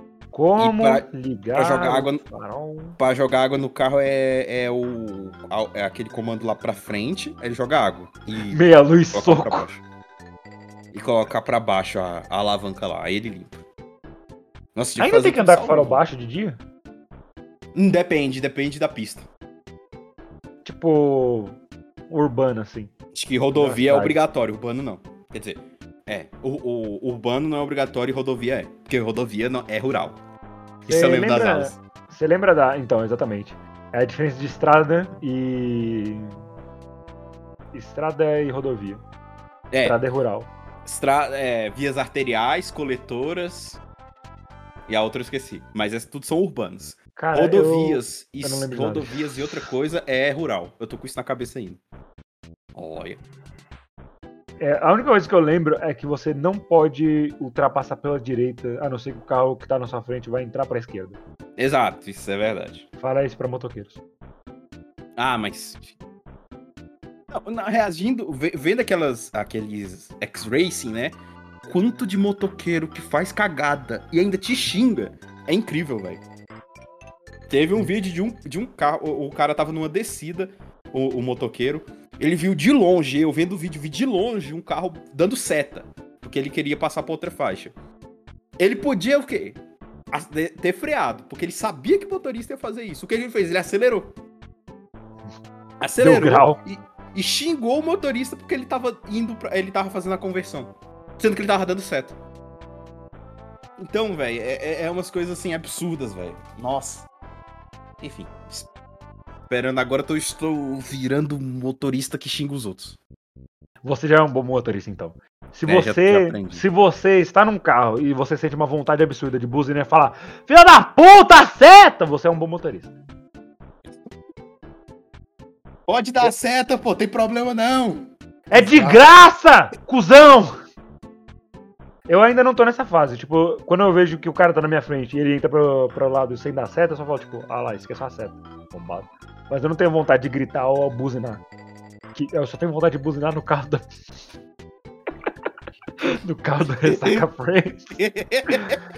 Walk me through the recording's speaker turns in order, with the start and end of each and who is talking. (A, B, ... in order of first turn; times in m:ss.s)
0:00.3-0:03.0 A
0:00.6-0:02.2 B
0:03.0-0:09.8 B
0:08.4-0:09.7 A
0:10.9-0:13.6 B
0:14.7-0:16.0 B
0:15.0-0:16.6 A
0:17.7-0:19.3 B
0:20.6-0:21.6 A
0:22.1-0:22.9 A
0:23.1-0:30.2 B
0:23.5-0:24.2 A
0:30.8-0:36.4 A
0:30.8-0:31.8 B
0:37.7-0:39.0 A
0:39.7-0:40.0 B
0:39.8-0:40.5 A
0:40.8-0:43.8 B
0:44.9-0:51.8 B
0:47.2-0:49.2 A
0:52.7-0:53.2 B
0:54.6-1:01.2 A
1:01.6-1:02.9 B
1:03.0-1:04.0 A
1:05.2-1:05.9 B
1:07.3-1:16.2 B
1:17.5-1:27.7 B
1:28.6-1:29.6 B
1:30.1-1:34.2 B
1:35.8-1:42.2 B
1:36.0-1:36.6 A
1:43.8-1:47.1 B
1:48.0-1:48.7 B
1:49.5-1:53.0 B
1:53.8-2:02.9 A
1:55.6-1:56.6 B
2:05.9-2:09.0 B
2:08.5-2:10.5 A
2:12.1-2:21.4 A
2:22.1-2:24.0 A
2:26.0-2:27.9 A
2:26.8-2:27.2 B
2:27.9-2:28.8 B
2:28.5-2:28.8 A